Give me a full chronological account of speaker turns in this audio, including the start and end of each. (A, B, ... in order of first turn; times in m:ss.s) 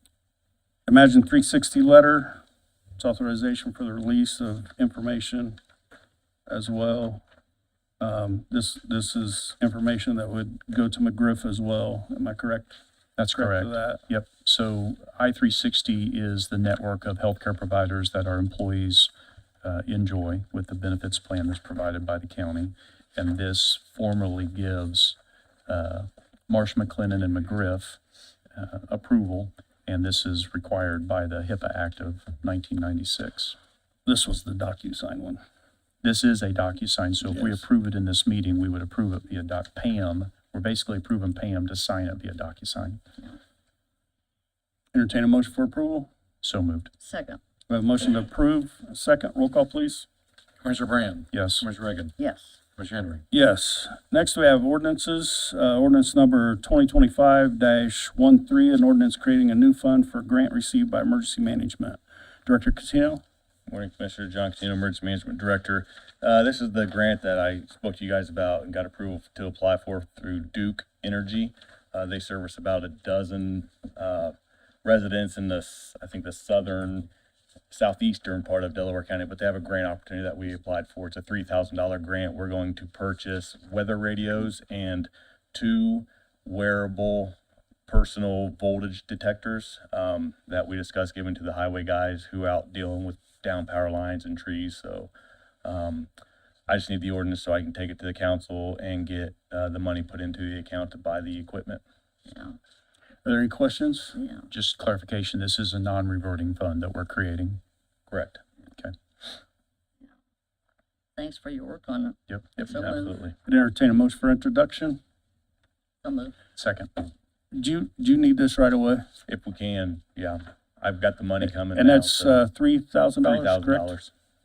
0:00.9-0:02.4 A
0:03.0-0:05.6 A
0:06.5-0:07.2 A
0:08.0-0:14.0 A
0:13.2-0:19.1 B
0:19.6-0:28.0 B
0:28.5-0:33.6 B
0:34.0-0:35.4 A
0:36.0-0:43.0 B
0:44.9-0:46.1 A
0:46.4-0:46.9 B
0:47.0-0:47.4 C
0:47.7-0:50.1 A
0:50.6-0:52.1 D
0:51.3-0:51.6 B
0:52.2-0:52.5 C
0:52.8-0:53.2 D
0:53.3-1:03.2 A
1:03.7-1:17.1 E
1:17.7-1:35.1 E
1:35.6-1:36.1 E
1:36.7-1:41.8 E
1:42.3-1:42.6 C
1:43.2-1:44.2 A
1:44.2-1:44.4 C
1:44.5-1:47.6 B
1:48.1-1:48.4 E
1:51.2-1:53.1 C
1:52.3-1:52.5 B
1:52.6-1:53.4 E
1:53.4-1:55.0 A
1:56.0-1:56.3 C
1:56.6-1:56.9 B
1:57.5-1:59.0 A
1:59.3-2:02.4 E
2:01.4-2:03.9 A
2:03.2-2:04.1 E